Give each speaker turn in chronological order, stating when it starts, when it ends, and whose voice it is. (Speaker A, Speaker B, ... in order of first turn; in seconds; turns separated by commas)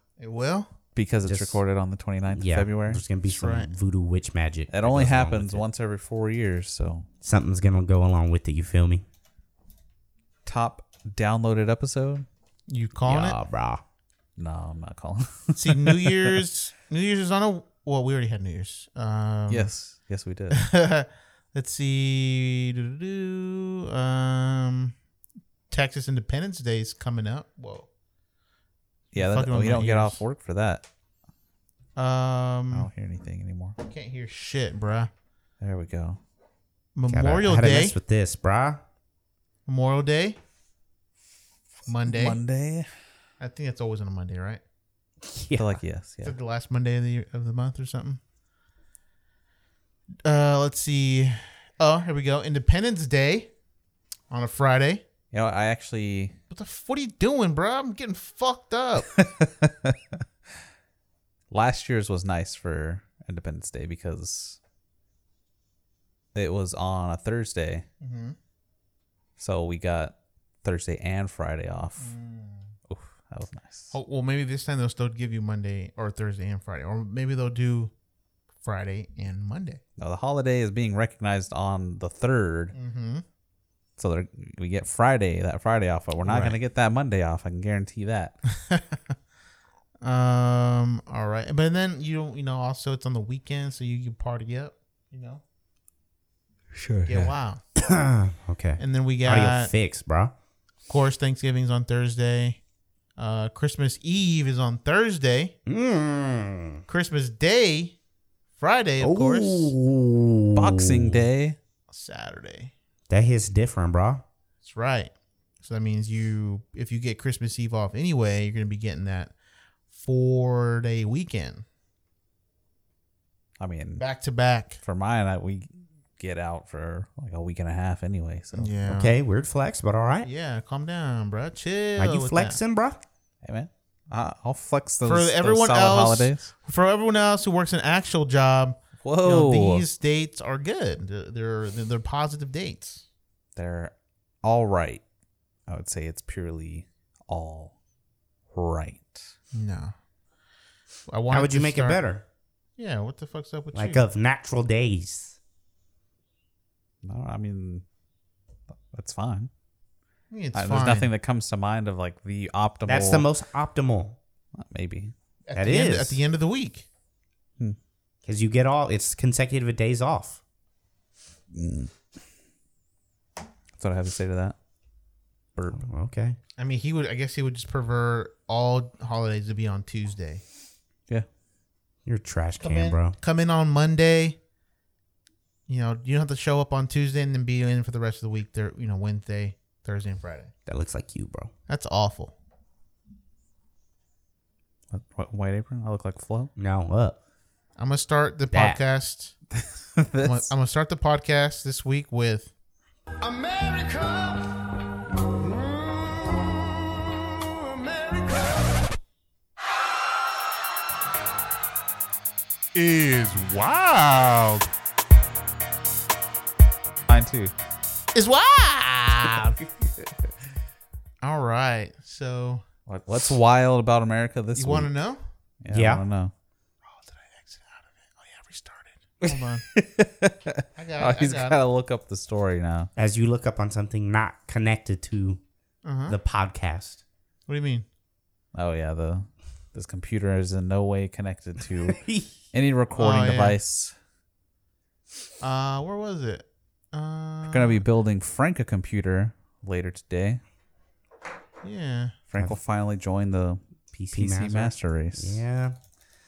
Speaker A: 0.2-0.7, Speaker B: 0.9-3.0, Speaker C: 1.2-1.6, Speaker C: 2.3-5.6, Speaker A: 3.3-3.7, Speaker B: 4.7-7.1, Speaker C: 7.2-9.1, Speaker B: 10.5-12.3, Speaker A: 12.7-13.4, Speaker C: 13.1-13.8, Speaker B: 14.4-16.3, Speaker A: 15.6-19.7, Speaker B: 19.5-20.6, Speaker A: 20.5-24.9, Speaker A: 25.7-27.9, Speaker A: 29.1-30.2, Speaker B: 29.1-30.9, Speaker A: 32.0-32.9, Speaker B: 32.7-33.8, Speaker A: 33.8-35.1, Speaker B: 35.6-36.2, Speaker A: 37.0-38.0, Speaker C: 37.1-38.8, Speaker A: 39.7-40.4, Speaker A: 41.9-42.4, Speaker B: 42.1-42.9, Speaker A: 43.4-44.6, Speaker C: 45.3-45.8, Speaker B: 45.6-46.4, Speaker A: 46.2-48.2, Speaker A: 50.2-53.5, Speaker A: 54.3-55.0, Speaker B: 55.3-56.4, Speaker A: 56.5-59.1, Speaker B: 59.2-60.0, Speaker B: 61.5-64.6, Speaker B: 66.3-67.9, Speaker A: 68.0-68.4, Speaker B: 69.4-72.1, Speaker A: 72.0-72.7, Speaker B: 72.9-73.9, Speaker A: 73.9-77.9, Speaker A: 78.6-79.8, Speaker B: 80.0-82.7, Speaker A: 82.7-83.2, Speaker B: 84.0-88.4, Speaker A: 86.2-86.6, Speaker A: 88.6-89.0, Speaker A: 90.0-95.4, Speaker B: 96.7-97.3, Speaker A: 97.1-97.6, Speaker C: 97.8-100.3, Speaker A: 98.8-99.7, Speaker A: 100.9-102.6, Speaker A: 103.2-105.6, Speaker C: 105.7-106.8, Speaker A: 106.9-108.0, Speaker A: 108.6-109.7, Speaker C: 109.0-111.2, Speaker B: 110.5-111.6, Speaker A: 111.9-112.7, Speaker C: 113.1-114.2, Speaker A: 114.6-115.1, Speaker A: 115.6-119.3, Speaker A: 119.9-121.7, Speaker B: 123.6-124.0, Speaker A: 124.0-124.8, Speaker B: 124.8-128.8, Speaker A: 128.5-129.2, Speaker C: 128.9-130.3, Speaker A: 130.2-132.6, Speaker C: 132.0-133.0, Speaker B: 133.4-136.5, Speaker A: 135.0-143.0, Speaker B: 139.0-139.8, Speaker B: 143.6-145.0, Speaker B: 145.7-147.8, Speaker B: 148.5-149.3, Speaker A: 149.5-149.9, Speaker A: 151.1-152.0, Speaker C: 151.3-152.2, Speaker A: 152.8-154.1, Speaker C: 153.7-155.4, Speaker B: 157.0-157.8, Speaker B: 158.8-159.5, Speaker A: 160.3-161.1, Speaker B: 160.5-163.3, Speaker C: 162.9-164.2, Speaker B: 164.6-165.1, Speaker A: 165.5-166.9, Speaker C: 165.5-166.2, Speaker C: 168.3-170.4, Speaker B: 171.5-171.9, Speaker B: 173.8-174.6, Speaker C: 175.7-176.4, Speaker A: 176.6-180.4, Speaker C: 182.1-183.2, Speaker A: 182.6-184.4, Speaker A: 185.7-190.5, Speaker C: 190.7-191.5, Speaker A: 191.7-192.3, Speaker B: 194.9-196.5, Speaker C: 196.6-197.2, Speaker A: 197.8-199.3, Speaker C: 198.5-198.8, Speaker B: 199.6-200.5, Speaker A: 200.2-202.5, Speaker D: 203.2-204.4, Speaker D: 205.4-208.7, Speaker A: 212.8-214.7, Speaker B: 217.1-217.5, Speaker A: 218.1-219.6, Speaker A: 221.2-222.6, Speaker B: 222.9-224.9, Speaker A: 224.6-225.2, Speaker B: 225.6-226.3, Speaker C: 225.7-226.0, Speaker A: 226.8-229.7, Speaker B: 229.3-232.9, Speaker A: 230.8-231.6, Speaker C: 233.0-235.4, Speaker A: 235.8-236.2, Speaker C: 236.1-237.0, Speaker A: 237.5-237.9, Speaker B: 238.5-243.9, Speaker C: 241.9-242.3, Speaker A: 242.9-243.6, Speaker A: 245.4-247.8, Speaker B: 247.5-250.4, Speaker A: 251.6-252.2, Speaker B: 252.3-253.6, Speaker C: 253.9-255.8, Speaker B: 254.1-255.4